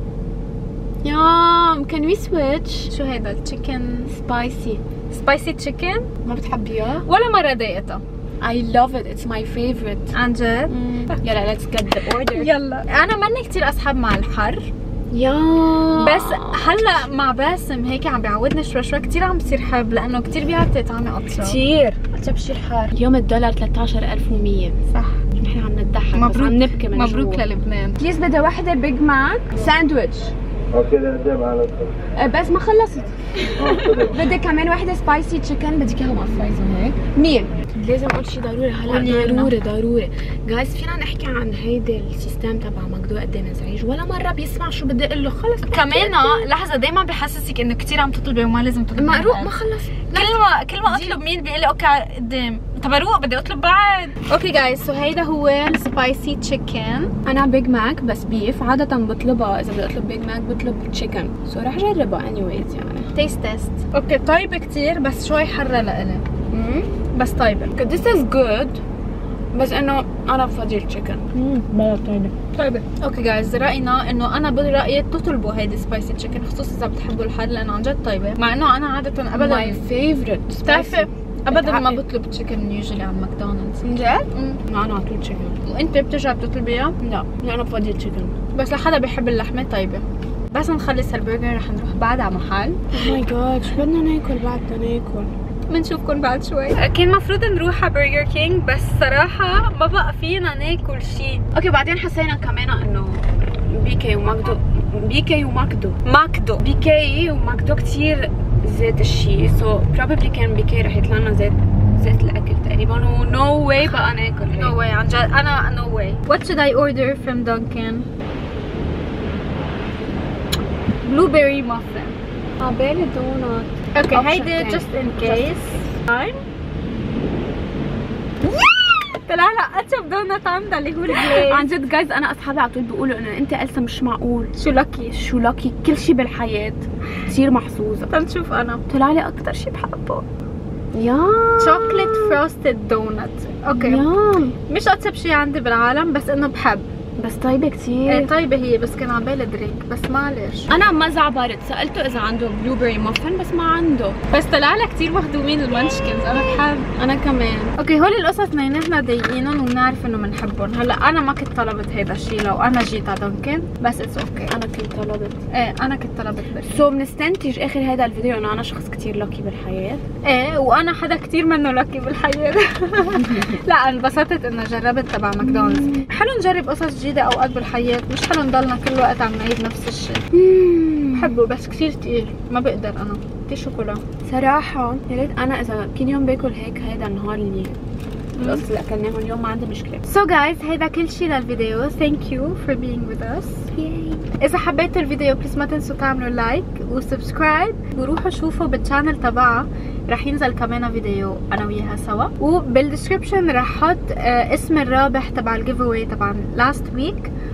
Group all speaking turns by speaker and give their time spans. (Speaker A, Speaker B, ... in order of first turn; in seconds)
Speaker A: 1.0-2.9, 4.1-4.8, 6.2-7.0, 8.4-10.1, 10.7-12.5, 15.1-17.1, 21.4-24.8, 25.4-27.4, 28.0-30.3, 32.1-46.5, 49.0-51.2, 57.2-63.1, 66.5-66.9, 67.8-68.8, 69.5-71.3, 79.3-82.0, 83.8-85.6, 87.0-88.3, 92.9-95.3, 101.5-106.0, 106.6-114.7, 122.6-125.8, 131.1-134.5, 135.1-138.1, 138.9-140.2, 140.9-142.4, 143.7-144.5, 147.2-148.3, 150.7-154.2, 156.9-157.7, 164.5-165.4, 166.6-170.0, 175.4-176.1, 180.3-181.3, 184.2-187.8, 188.3-190.0, 193.7-194.2
Speaker B: 2.9-4.1, 5.1-6.1, 7.0-8.0, 10.1-11.2, 12.2-14.7, 15.9-21.6, 24.9-25.2, 26.1-28.0, 38.9-39.5, 45.7-49.5, 50.1-57.1, 63.1-66.2, 67.1-67.7, 71.3-79.8, 80.6-84.6, 85.6-87.0, 88.5-93.1, 95.7-101.4, 106.0-106.6, 114.5-118.1, 121.0-122.2, 123.9-126.4, 129.3-131.7, 134.6-135.2, 138.1-138.8, 141.6-144.1, 144.7-146.9, 148.1-150.7, 154.3-156.9, 157.8-164.5, 165.5-166.8, 170.2-180.2, 181.1-184.0, 188.3-188.6, 190.1-193.7, 194.4-207.3